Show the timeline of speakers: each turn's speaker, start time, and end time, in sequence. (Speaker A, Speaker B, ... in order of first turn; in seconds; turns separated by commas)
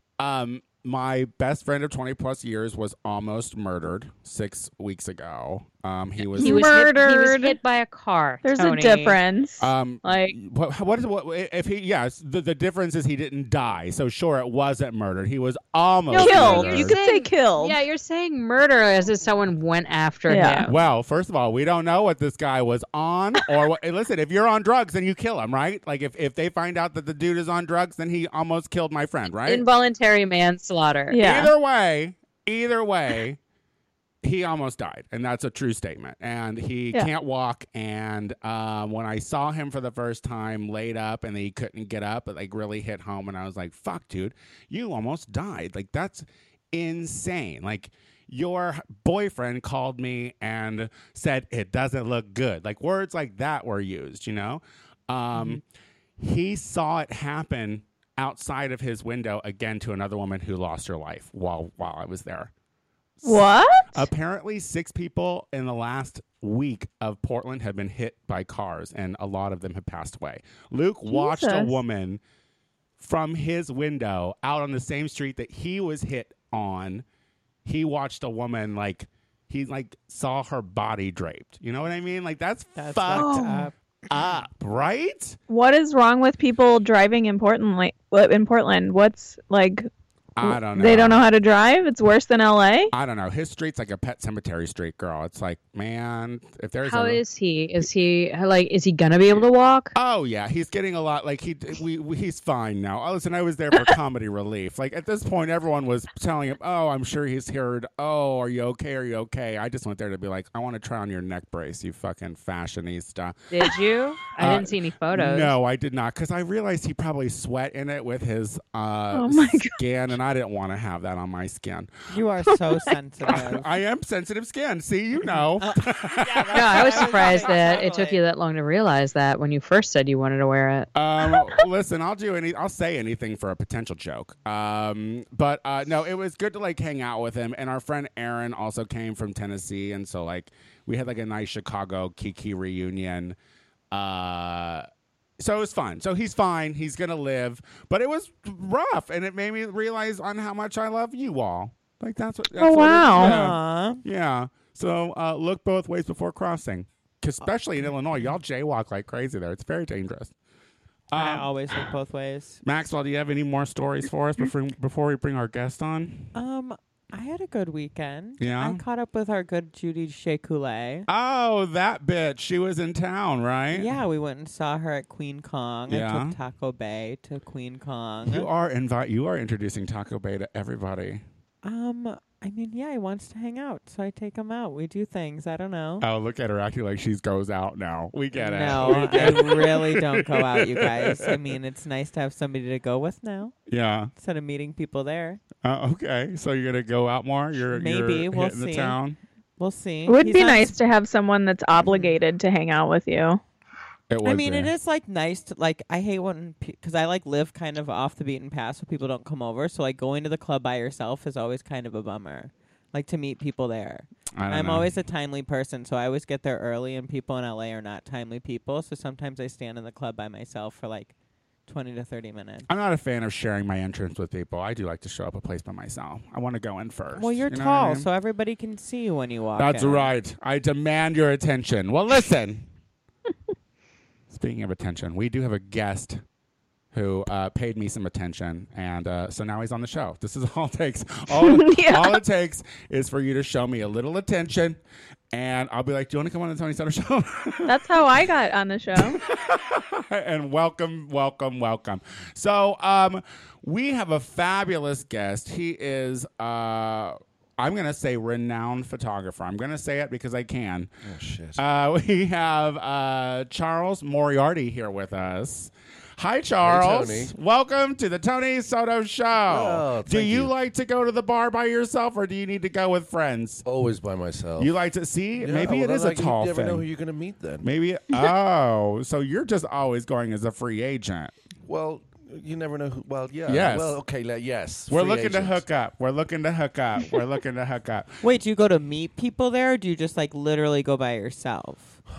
Speaker A: 0.2-6.7, Speaker B: 6.3-9.2, Speaker C: 6.4-7.6, Speaker C: 8.4-9.7, Speaker A: 9.6-17.0, Speaker B: 10.0-10.3, Speaker B: 16.1-20.7, Speaker C: 16.1-17.8, Speaker C: 20.3-20.7, Speaker A: 20.6-29.6, Speaker B: 29.4-31.3, Speaker C: 31.1-31.5, Speaker A: 31.2-33.4, Speaker A: 34.2-55.6, Speaker A: 56.2-62.5, Speaker A: 63.2-72.2, Speaker C: 63.2-64.1, Speaker C: 71.1-71.8, Speaker A: 73.0-77.0, Speaker A: 77.6-85.4, Speaker D: 82.8-83.7, Speaker C: 83.2-83.7, Speaker C: 85.5-89.9, Speaker A: 90.3-91.3, Speaker C: 90.4-92.9, Speaker A: 92.9-97.2, Speaker B: 96.9-99.9, Speaker A: 99.9-113.8, Speaker B: 113.5-115.5, Speaker A: 114.4-121.9, Speaker C: 119.1-119.8, Speaker D: 122.1-123.7, Speaker A: 123.2-127.5, Speaker D: 125.3-128.2, Speaker B: 126.5-130.9, Speaker A: 130.9-143.4, Speaker A: 143.9-144.9, Speaker A: 145.4-160.3, Speaker C: 152.6-153.4, Speaker D: 153.1-154.0, Speaker A: 161.1-161.5, Speaker D: 161.1-162.6, Speaker A: 162.6-166.3, Speaker D: 166.3-171.1, Speaker A: 168.4-168.8, Speaker A: 171.1-173.9, Speaker D: 173.7-178.5, Speaker A: 175.9-176.3, Speaker A: 178.2-181.2, Speaker D: 181.6-186.1, Speaker A: 186.0-191.3, Speaker D: 188.3-193.6, Speaker A: 193.7-194.1, Speaker D: 194.2-195.4, Speaker A: 195.6-199.2, Speaker D: 197.7-199.0, Speaker D: 199.6-200.8, Speaker C: 200.1-203.4, Speaker D: 201.8-202.2, Speaker A: 204.1-204.7, Speaker D: 204.2-221.1, Speaker A: 214.3-214.9, Speaker D: 221.7-222.7, Speaker A: 222.7-228.1, Speaker D: 227.1-230.1, Speaker A: 229.6-232.7, Speaker A: 234.3-236.2, Speaker A: 236.9-244.8, Speaker C: 241.4-242.2, Speaker A: 245.3-247.8, Speaker C: 247.7-249.2, Speaker A: 249.0-260.9, Speaker E: 261.0-261.6, Speaker A: 261.6-273.6, Speaker E: 266.6-267.3, Speaker E: 269.4-270.5, Speaker E: 273.6-274.8, Speaker A: 274.6-276.9, Speaker E: 275.4-277.7, Speaker A: 277.6-281.3, Speaker E: 281.6-285.6, Speaker A: 283.5-284.0, Speaker A: 284.9-288.2, Speaker D: 288.2-292.0